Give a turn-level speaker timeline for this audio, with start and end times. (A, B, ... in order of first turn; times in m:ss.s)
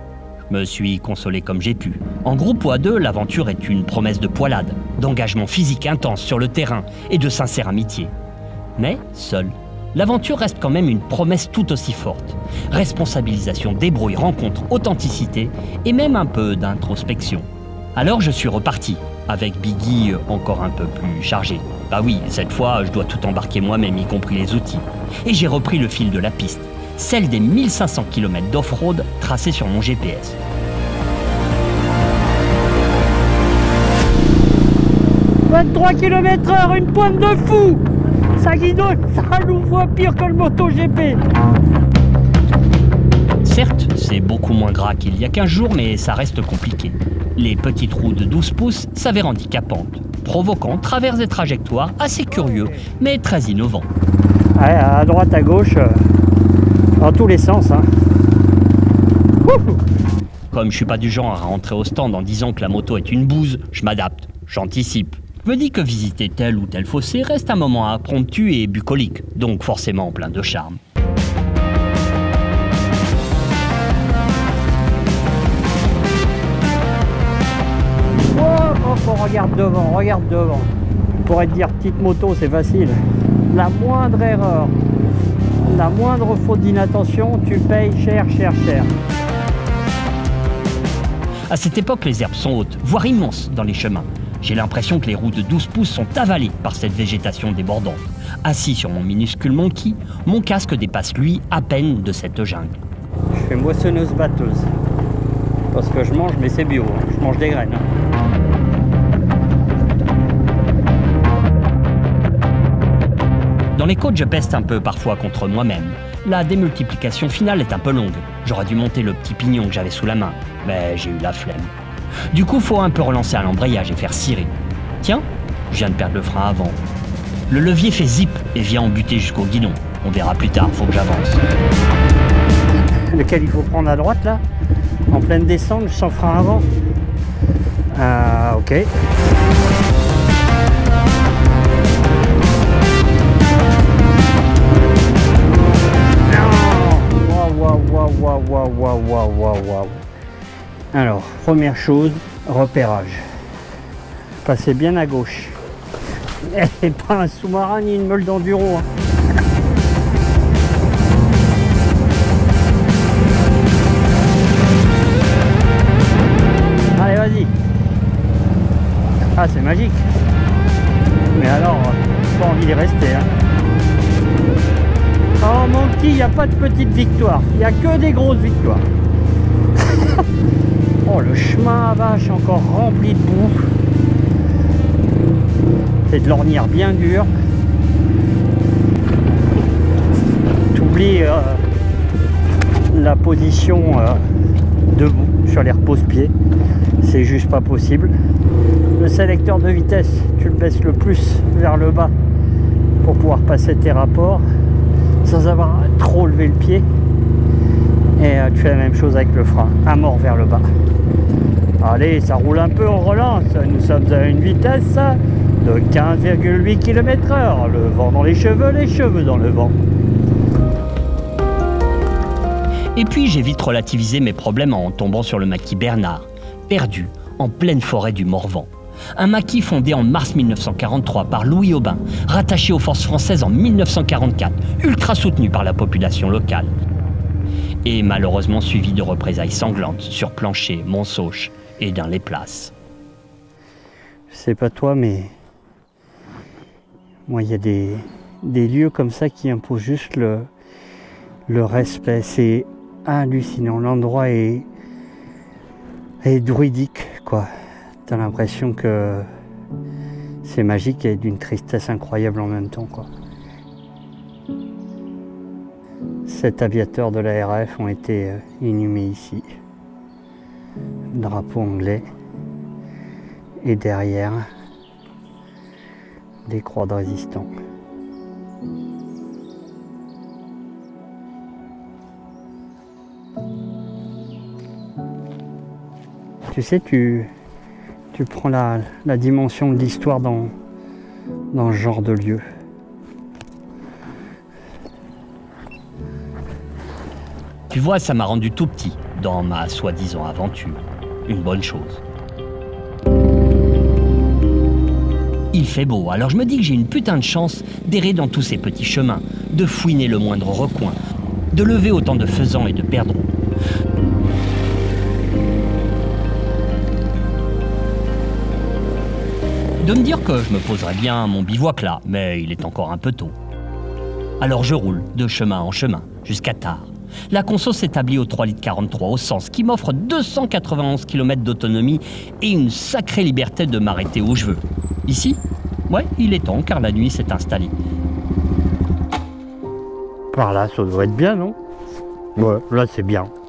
0:00.5-0:08.1 A
0:08.8-0:30.4 A
0:35.5-0:37.8 B
0:38.4-0:41.2 B
0:43.4-0:53.9 A
0:52.3-0:52.9 B
0:54.6-0:56.0 B
0:57.0-0:57.8 B
0:59.4-0:59.8 B
1:00.5-1:10.8 A
1:18.3-1:20.7 B
1:21.2-1:23.0 B
1:23.5-1:24.7 B
1:25.7-1:28.9 B
1:31.5-1:42.8 A
1:43.4-1:44.7 B
1:45.7-1:47.8 B
1:53.8-2:01.7 A
2:02.3-2:06.8 A
2:07.5-2:11.4 A
2:13.2-2:14.4 B
2:15.1-2:16.7 B
2:18.0-2:18.9 B
2:26.3-2:30.0 B
2:30.9-2:33.2 B
2:34.4-2:35.6 B
2:36.5-2:38.9 B
2:47.0-2:47.5 B
2:49.4-2:50.0 B
2:51.3-2:53.3 B
2:55.4-2:58.8 B
2:59.8-3:00.2 B
3:01.0-3:03.6 B
3:06.1-3:07.3 B
3:10.7-3:11.6 B
3:12.9-3:14.2 B
3:14.9-3:16.3 B
3:17.0-3:18.1 B
3:19.0-3:22.1 B
3:23.0-3:24.4 B
3:25.2-3:26.8 B
3:28.2-3:30.6 B
3:31.8-3:39.8 B
3:43.0-3:56.8 A
3:57.8-4:02.7 A
4:04.3-4:05.3 B
4:07.3-4:10.5 B
4:11.5-4:14.7 B
4:16.2-4:17.5 B
4:18.1-4:19.2 B
4:20.4-4:23.1 B
4:26.3-4:29.4 B
4:31.2-4:32.0 B
4:33.6-4:34.4 B
4:36.5-4:37.5 B
4:46.5-4:47.3 B
4:48.1-4:50.5 B
4:51.5-4:52.4 B
4:57.7-5:02.0 A
5:05.5-5:11.0 A
5:11.5-5:13.3 A
5:19.8-5:23.4 A
5:24.4-5:37.8 A
5:40.3-5:41.6 B
5:42.4-5:43.3 B